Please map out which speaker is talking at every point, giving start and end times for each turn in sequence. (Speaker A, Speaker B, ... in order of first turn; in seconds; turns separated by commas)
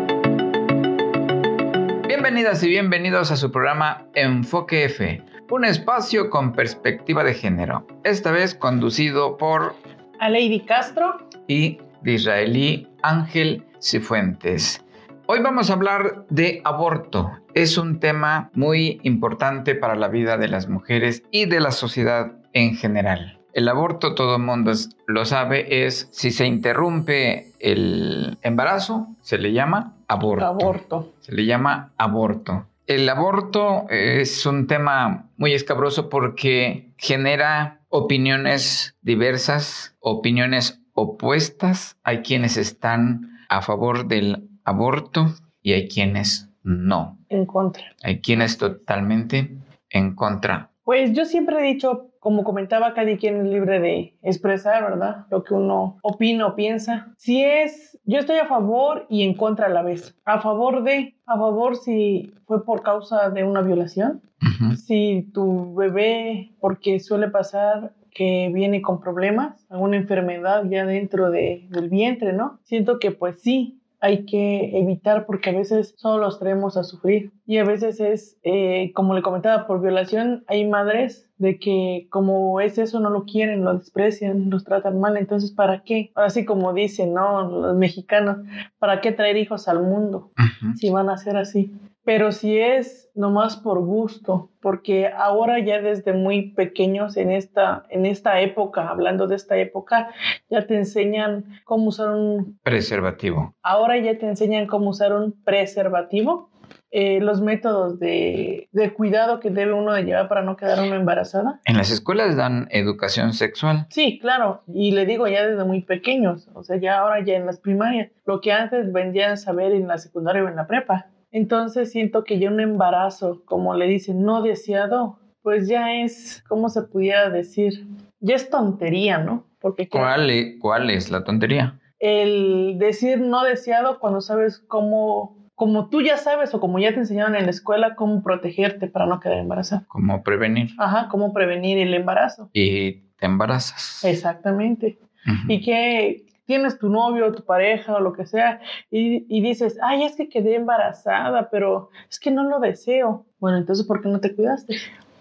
Speaker A: 2.0-9.8, Speaker B: 10.2-11.2, Speaker A: 11.5-47.2, Speaker B: 30.4-31.1, Speaker B: 47.3-48.8, Speaker A: 48.0-50.7, Speaker B: 50.9-64.2, Speaker A: 64.4-64.8, Speaker B: 64.7-102.5, Speaker A: 90.4-90.8, Speaker A: 102.6-103.5, Speaker B: 103.6-111.6, Speaker A: 111.6-113.9, Speaker B: 113.9-130.1, Speaker A: 129.9-131.8, Speaker B: 132.0-139.8, Speaker A: 139.9-140.8, Speaker B: 140.8-142.5, Speaker A: 142.5-144.2, Speaker B: 144.0-154.9, Speaker A: 145.2-145.6